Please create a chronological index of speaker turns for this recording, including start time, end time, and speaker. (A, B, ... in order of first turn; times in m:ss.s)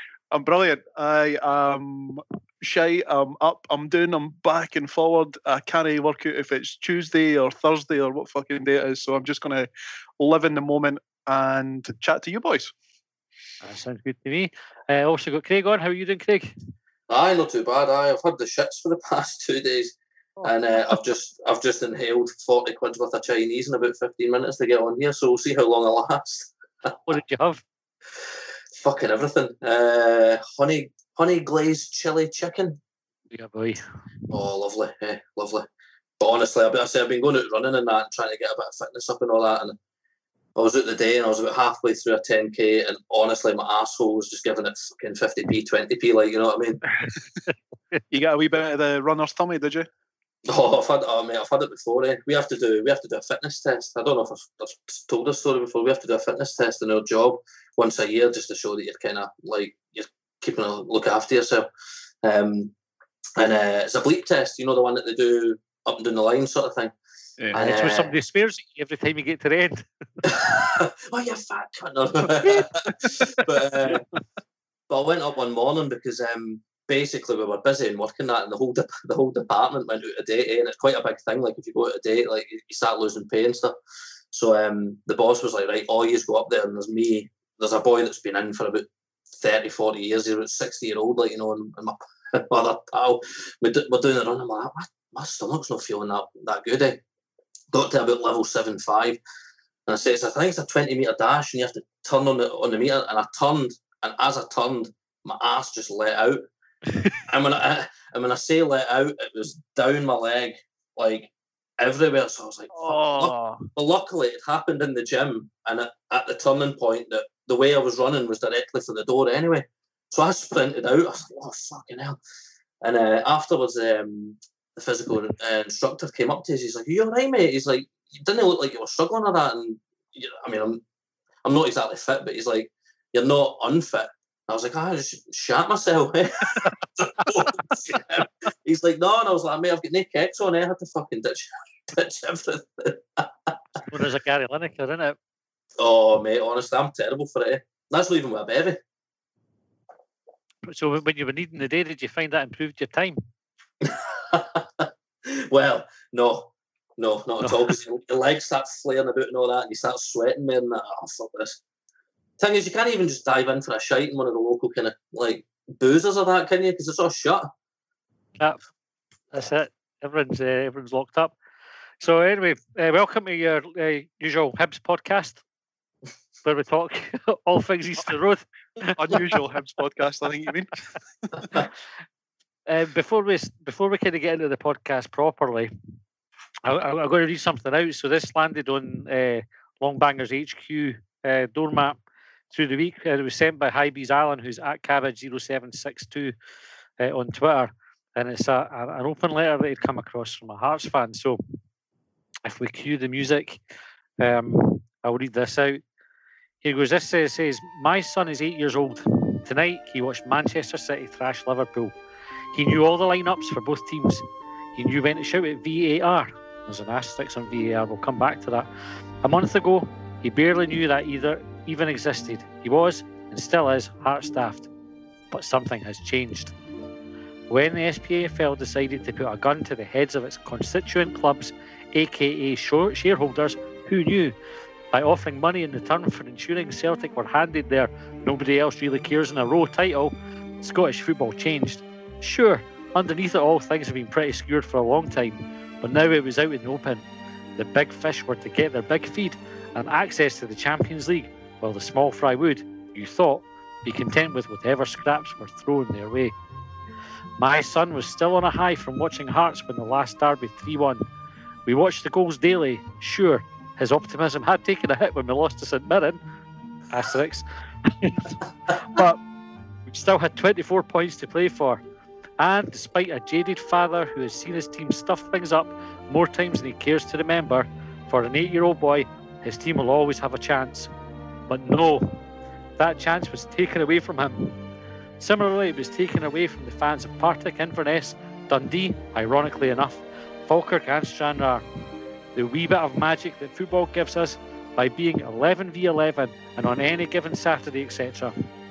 0:00.3-0:12.7 A
0:13.6-0:16.5 B
0:17.1-0:27.0 C
0:27.1-0:27.6 B
0:28.8-0:32.8 C
0:33.3-0:33.8 B
0:34.3-0:35.7 C
0:36.2-0:39.8 C
0:40.6-0:46.8 C
0:48.1-0:49.9 A
0:50.4-1:01.7 C
1:02.2-1:02.7 C
1:03.4-1:06.9 C
1:07.5-1:08.1 C
1:07.5-1:09.9 B
1:10.2-1:14.0 C
1:12.5-1:14.0 A
1:14.9-1:23.8 C
1:24.3-1:28.9 C
1:29.4-1:37.0 C
1:37.7-1:39.2 C
1:39.9-1:46.4 C
1:47.2-2:02.2 C
1:52.7-1:53.6 A
2:02.8-2:10.8 C
2:11.4-2:23.5 C
2:23.8-2:25.2 B
2:25.8-2:28.8 C
2:30.6-2:33.2 B
2:33.8-2:41.6 C
2:42.4-2:47.5 C
2:49.3-2:51.3 B
2:52.0-2:55.4 B
2:56.4-2:59.2 B
2:59.0-3:00.8 A
3:02.7-3:05.7 B
3:06.6-3:12.0 B
3:12.5-3:16.3 B
3:17.0-3:21.4 B
3:22.4-3:23.6 B
3:24.2-3:25.8 B
3:26.6-3:32.0 B
3:32.5-3:38.7 B
3:39.2-3:44.7 B
3:45.3-3:46.6 B
3:47.5-3:54.4 B
3:54.9-4:16.4 B
4:17.4-4:21.0 B
4:21.7-4:26.2 B
4:26.9-4:29.2 B
4:29.9-4:31.8 B
4:32.4-4:40.9 B
4:41.5-4:42.2 B
4:42.8-4:44.6 B
4:45.2-4:51.6 B
4:52.4-4:58.4 B